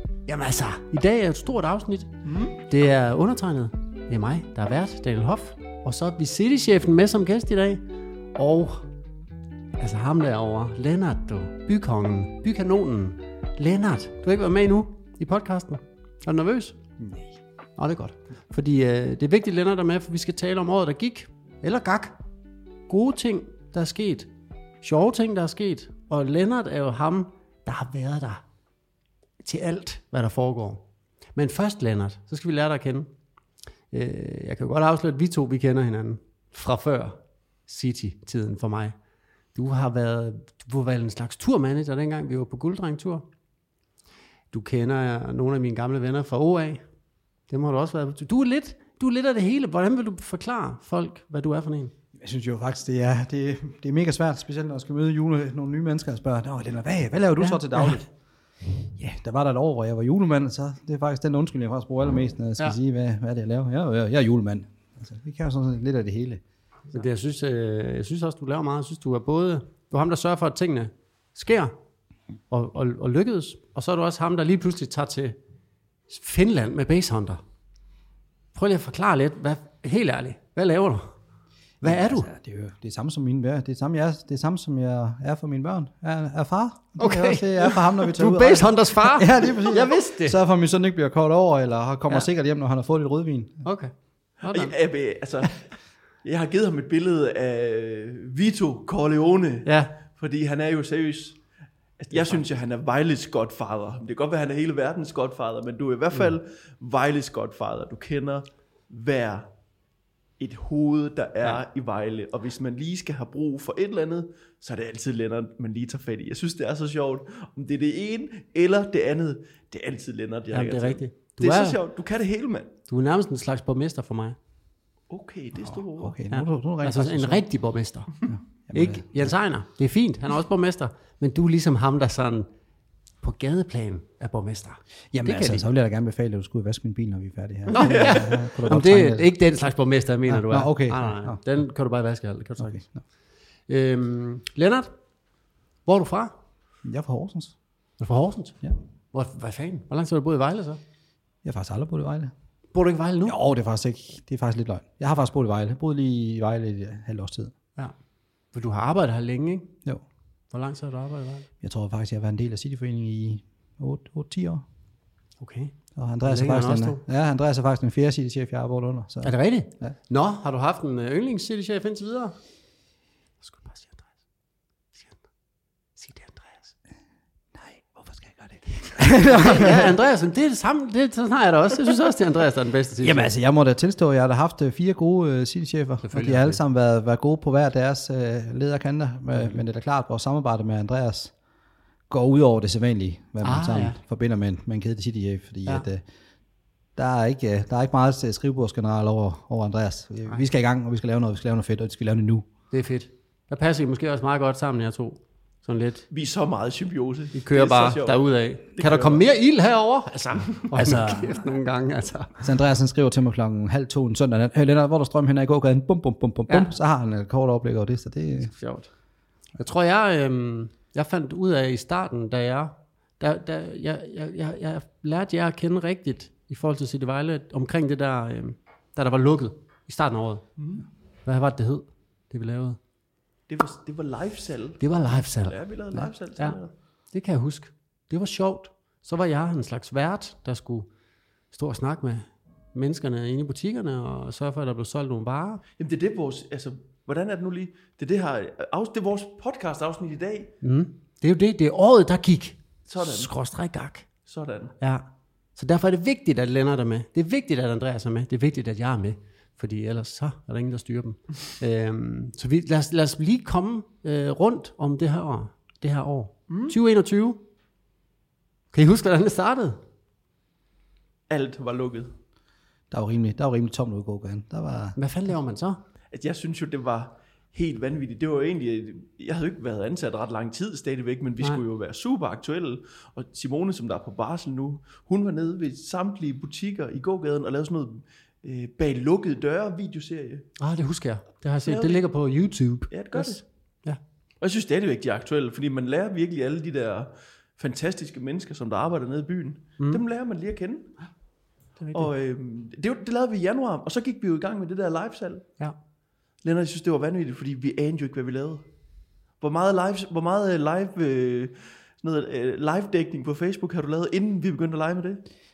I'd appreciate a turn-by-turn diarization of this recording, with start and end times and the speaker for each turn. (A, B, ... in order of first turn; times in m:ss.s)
0:00.2-0:07.8 A
0:02.2-0:02.6 B
0:08.3-0:08.9 A
0:09.8-0:16.8 A
0:17.0-0:17.3 C
0:17.8-0:22.2 A
0:22.9-0:24.3 A
0:24.8-0:28.4 A
0:29.4-0:33.1 A
0:33.9-0:38.9 A
0:39.5-0:43.2 A
0:44.5-0:46.8 A
0:47.5-0:51.9 A
0:52.2-0:58.1 C
0:57.4-0:57.9 A
0:58.8-1:06.4 C
1:06.9-1:11.7 A
1:12.5-1:15.4 A
1:16.1-1:17.4 A
1:18.5-1:21.1 A
1:21.8-1:33.6 C
1:21.8-1:22.3 A
1:27.0-1:30.4 A
1:33.6-1:34.7 A
1:34.5-1:35.6 B
1:36.2-1:41.4 B
1:39.6-1:39.9 A
1:42.0-1:49.5 B
1:42.1-1:42.4 A
1:50.4-2:02.7 B
2:00.5-2:01.8 A
2:02.9-2:04.4 A
2:05.1-2:06.2 B
2:05.6-2:07.4 C
2:06.3-2:08.1 A
2:08.3-2:09.3 C
2:08.7-2:12.5 A
2:13.2-2:15.6 A
2:15.1-2:19.3 C
2:17.7-2:22.8 A
2:17.7-2:18.3 B
2:20.3-2:21.4 C
2:22.6-2:23.0 C
2:23.7-2:24.9 A
2:25.8-2:26.3 A
2:26.8-2:27.5 C
2:28.0-2:30.8 A
2:31.4-2:32.3 C
2:32.7-2:33.4 A
2:33.2-2:37.5 C
2:38.5-2:39.7 A
2:40.5-2:41.5 A
2:41.6-2:44.6 C
2:45.4-2:47.0 A
2:46.0-2:49.9 C
2:49.2-2:52.3 A
2:53.4-2:54.1 A
2:54.9-2:55.2 A
2:56.0-2:56.7 A
2:57.5-3:00.0 C
2:58.8-3:03.3 A
3:03.0-3:11.3 C
3:06.0-3:06.6 A
3:12.1-3:16.0 C
3:13.4-3:14.0 A
3:17.0-3:22.5 C
3:22.7-3:26.0 A
3:26.1-3:29.2 B
3:27.3-3:32.4 A
3:30.4-3:31.1 B
3:32.4-3:38.5 C
3:38.4-3:38.9 A
3:39.6-3:50.4 A
3:50.6-3:50.8 B
3:51.2-3:52.8 A
3:53.5-3:56.7 B
3:54.8-3:55.6 A
3:57.1-4:00.9 A
4:01.5-4:05.6 A
4:05.8-4:10.5 B
4:10.6-4:14.0 A
4:12.9-4:13.3 B
4:14.2-4:14.8 B
4:15.6-4:27.4 A
4:26.5-4:26.8 B
4:28.7-4:29.8 A
4:31.3-4:32.1 B
4:32.9-4:35.0 C
4:35.0-4:35.8 A
4:36.1-4:50.5 B
4:50.6-4:54.0 A
4:51.6-4:52.0 B
4:52.9-4:53.4 B
4:54.4-5:00.9 B
5:01.8-5:02.1 A
5:01.9-5:05.5 B
5:06.4-5:08.6 B
5:09.4-5:15.2 B